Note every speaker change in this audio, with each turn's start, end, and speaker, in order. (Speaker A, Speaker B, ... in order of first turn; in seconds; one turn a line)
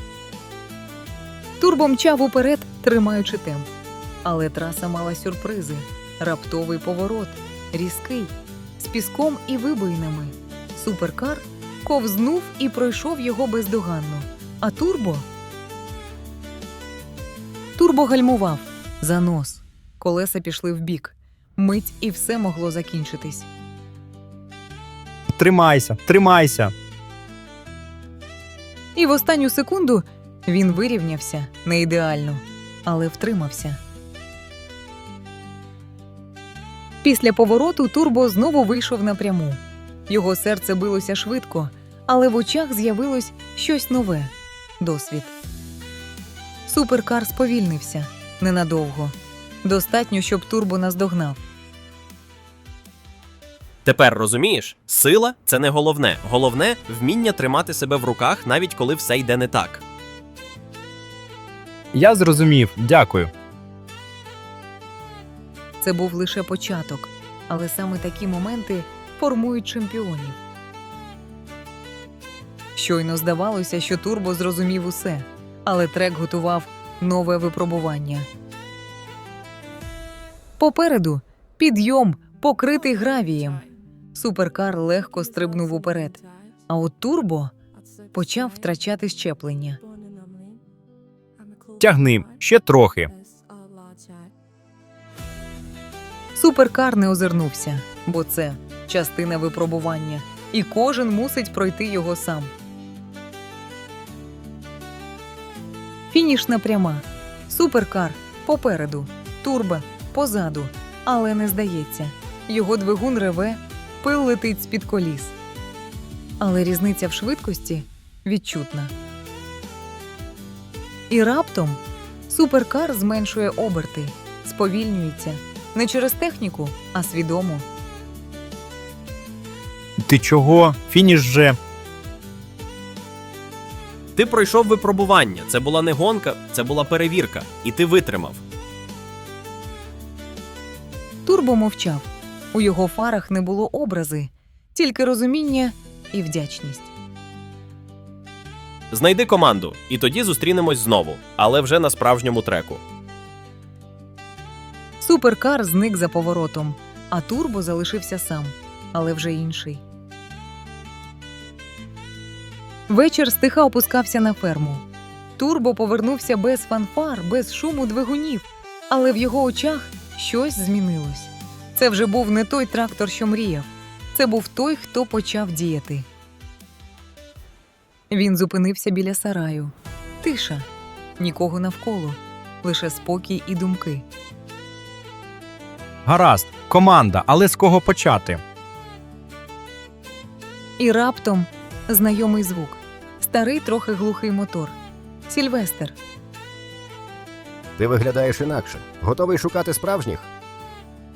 Speaker A: 1.6-3.7
Speaker A: 4.2-15.3
Speaker A: 17.8-23.5
Speaker B: 25.3-26.7
Speaker A: 28.9-33.8
Speaker A: 37.0-45.3
Speaker A: 46.7-51.4
Speaker C: 53.9-59.8
Speaker B: 61.9-63.3
Speaker A: 65.8-70.4
Speaker A: 72.8-78.3
Speaker A: 80.6-87.5
Speaker A: 88.1-89.8
Speaker B: 91.8-93.1
Speaker A: 96.3-102.5
Speaker A: 106.1-115.3
Speaker A: 116.4-118.9
Speaker A: 121.1-127.7
Speaker B: 130.0-131.6
Speaker C: 134.2-138.4
Speaker A: 141.3-146.9
Speaker C: 148.9-152.8
Speaker A: 155.0-159.8
Speaker A: 162.9-164.8
Speaker A: 165.4-176.1
Speaker A: 178.1-180.7
Speaker A: 181.2-184.1
Speaker B: 186.1-188.4
Speaker A: 190.8-194.8
Speaker A: 195.3-196.0
Speaker D: 197.8-200.3